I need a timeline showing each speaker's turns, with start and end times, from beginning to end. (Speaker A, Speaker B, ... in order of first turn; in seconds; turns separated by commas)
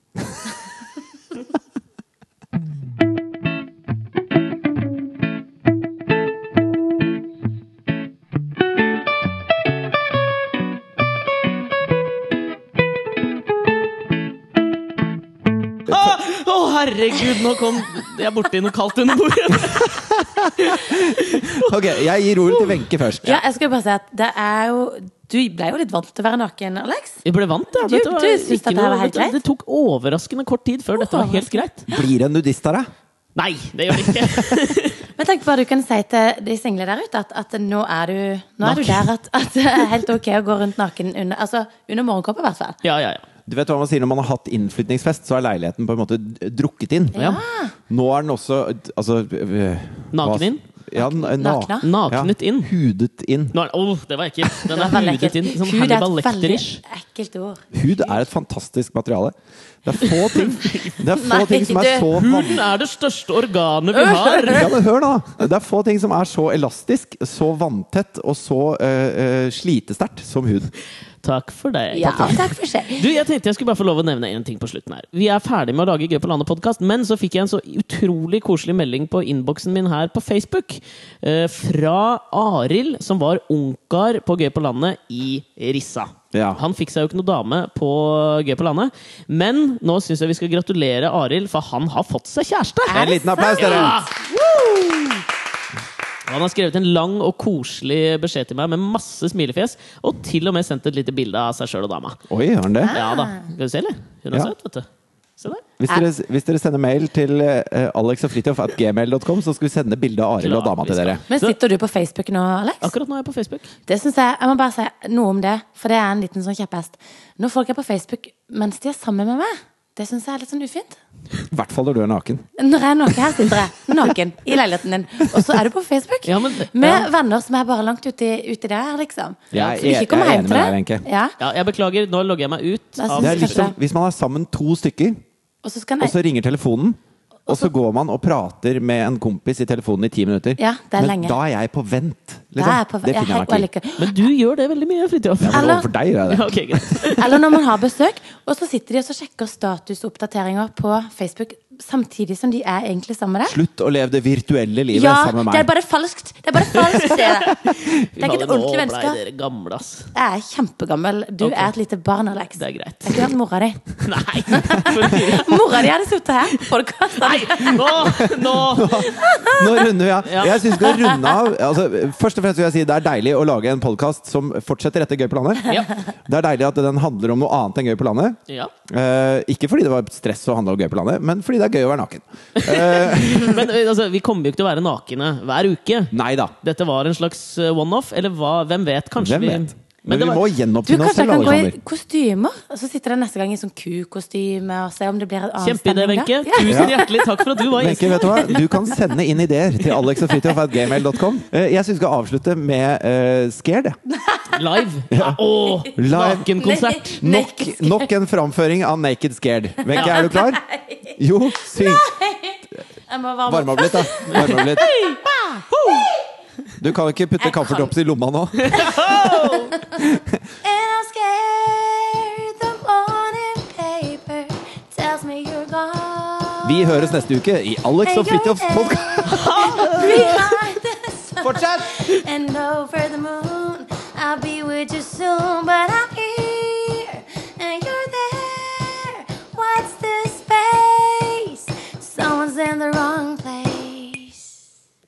Speaker A: 0.2-0.4, Speaker A: 15.9-16.2, Speaker B: 15.9-21.7, Speaker A: 20.0-23.4, Speaker B: 22.5-23.4, Speaker C: 23.2-27.2, Speaker B: 27.2-31.9, Speaker C: 27.7-29.4, Speaker C: 30.9-32.0, Speaker A: 31.9-32.9, Speaker B: 33.4-35.0, Speaker A: 33.9-34.7, Speaker C: 35.1-42.8, Speaker B: 38.6-39.1, Speaker B: 42.8-43.2, Speaker A: 43.5-47.3, Speaker C: 47.1-47.7, Speaker A: 47.9-53.5, Speaker B: 50.1-50.6, Speaker C: 50.9-51.9, Speaker B: 51.8-52.7, Speaker B: 53.5-56.8, Speaker C: 54.7-58.1, Speaker A: 57.7-62.7, Speaker C: 60.6-62.1, Speaker B: 62.1-64.7, Speaker C: 63.9-64.7, Speaker A: 64.5-70.7, Speaker B: 71.2-93.0, Speaker C: 71.9-73.1, Speaker A: 72.0-72.4, Speaker A: 86.3-86.6, Speaker C: 92.9-95.1, Speaker A: 92.9-94.0, Speaker B: 93.5-94.1, Speaker B: 96.2-102.2, Speaker A: 102.3-103.0, Speaker C: 102.8-103.5, Speaker B: 102.9-104.9, Speaker B: 105.4-105.6, Speaker A: 105.8-111.2, Speaker B: 110.4-111.5, Speaker C: 111.3-112.9, Speaker B: 112.8-113.7, Speaker C: 113.9-121.0, Speaker A: 121.5-122.5, Speaker C: 122.6-131.3, Speaker B: 126.2-127.1, Speaker A: 129.5-131.0, Speaker B: 129.5-130.0, Speaker B: 131.4-133.7, Speaker C: 133.0-133.7, Speaker A: 133.2-135.2, Speaker C: 135.6-136.1, Speaker A: 136.0-143.7, Speaker C: 140.6-141.4, Speaker C: 142.6-144.2, Speaker B: 144.0-147.5, Speaker A: 145.4-147.0, Speaker C: 145.5-145.9, Speaker C: 147.0-153.6, Speaker A: 153.5-155.7, Speaker C: 154.9-159.2, Speaker B: 157.0-160.1, Speaker C: 160.1-168.2, Speaker B: 161.4-161.7, Speaker B: 162.6-163.3, Speaker B: 164.0-165.9, Speaker B: 167.2-169.1, Speaker A: 168.0-183.6, Speaker C: 168.8-169.9, Speaker B: 170.2-170.7, Speaker C: 170.6-171.4, Speaker B: 175.7-175.9, Speaker B: 182.6-190.4, Speaker A: 186.1-186.5, Speaker A: 189.2-191.8, Speaker C: 190.8-199.0, Speaker B: 195.6-198.6, Speaker A: 196.6-197.0, Speaker A: 197.7-204.0, Speaker C: 200.4-200.8, Speaker C: 204.1-204.8, Speaker B: 204.5-207.2, Speaker A: 205.1-205.4, Speaker C: 205.5-205.9, Speaker A: 205.9-206.5, Speaker C: 206.6-208.1, Speaker A: 207.2-210.6, Speaker C: 209.9-216.2, Speaker A: 211.2-212.1, Speaker A: 213.5-214.9, Speaker B: 214.3-214.9, Speaker B: 215.7-216.1, Speaker A: 216.8-219.0, Speaker C: 217.4-217.9, Speaker B: 218.6-219.8, Speaker C: 218.7-220.0, Speaker A: 220.0-220.4, Speaker C: 220.6-227.2, Speaker A: 226.6-229.9, Speaker C: 228.0-244.5, Speaker B: 229.3-230.6, Speaker A: 231.4-232.0